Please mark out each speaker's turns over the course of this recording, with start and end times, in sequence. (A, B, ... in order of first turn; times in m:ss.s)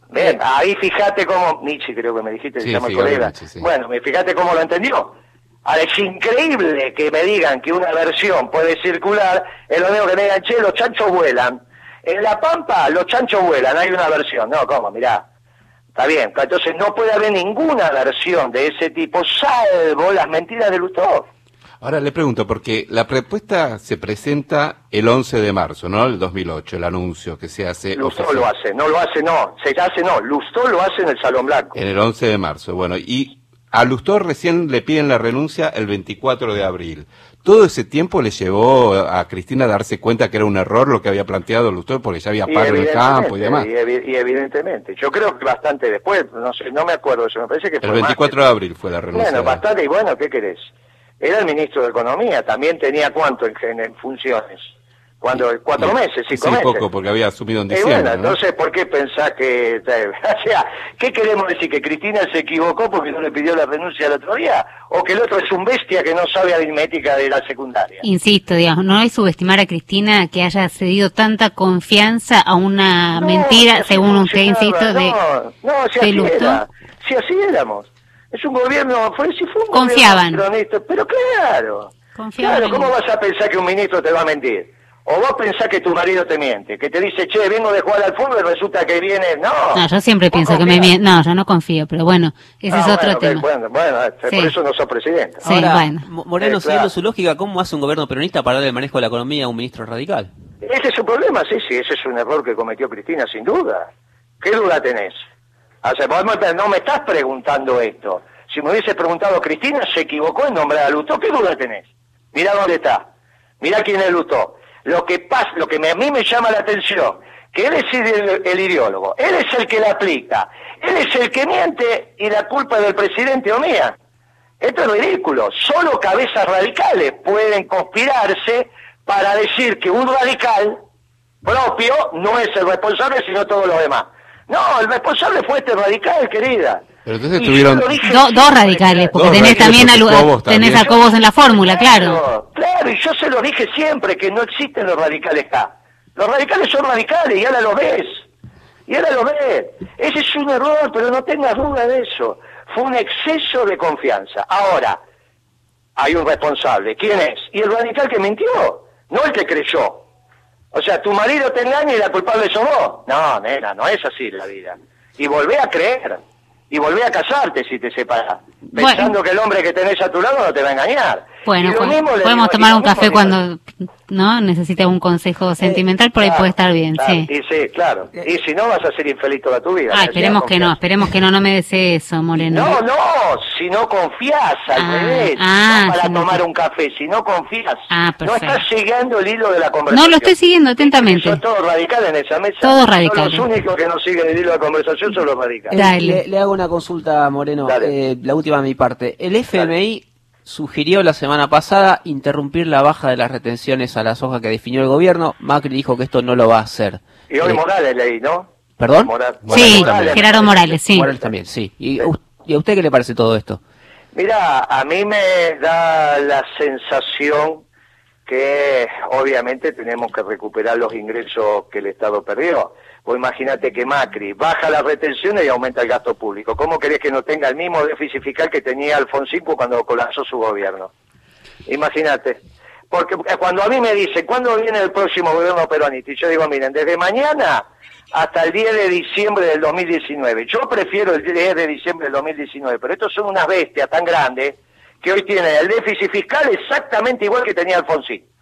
0:00.1-0:15.3 A
0:02.6-0:03.7 B
0:16.0-0:21.3 A
0:21.8-0:28.5 B
0:28.0-0:31.8 A
0:31.8-0:43.7 B
0:42.5-0:48.5 A
0:47.8-0:49.6 B
0:49.1-0:56.8 A
0:55.8-0:58.4 B
0:57.7-1:08.0 A
1:08.0-1:15.2 C
1:13.2-1:31.0 A
1:16.0-1:16.6 C
1:19.7-1:20.4 C
1:22.2-1:22.9 C
1:29.7-1:33.5 C
1:32.7-1:35.4 A
1:34.3-1:34.5 C
1:35.4-1:36.0 C
1:35.4-1:40.3 D
1:36.4-1:36.9 A
1:40.6-1:43.9 A
1:44.4-1:45.2 A
1:45.8-1:53.1 A
1:53.6-2:04.0 A
2:04.6-2:10.8 A
2:11.4-2:16.8 A
2:17.0-2:18.0 B
2:17.4-2:19.8 A
2:18.0-2:22.2 C
2:19.2-2:20.7 B
2:20.6-2:28.3 A
2:28.9-2:35.0 A
2:36.0-2:40.1 A
2:40.7-2:53.4 A
2:48.7-2:49.1 C
2:51.4-2:57.3 C
2:55.6-3:00.8 A
2:59.9-3:02.8 C
3:02.4-3:15.8 A
3:04.8-3:06.4 C
3:07.9-3:08.6 C
3:09.9-3:11.4 C
3:12.6-3:13.5 C
3:15.7-3:27.6 D
3:15.8-3:16.2 C
3:17.6-3:17.9 A
3:27.3-3:31.2 A
3:28.8-3:33.6 D
3:29.5-3:29.8 B
3:29.5-3:31.1 C
3:34.1-3:37.6 A
3:38.3-3:50.9 A
3:51.7-3:52.4 A
3:52.9-4:08.2 A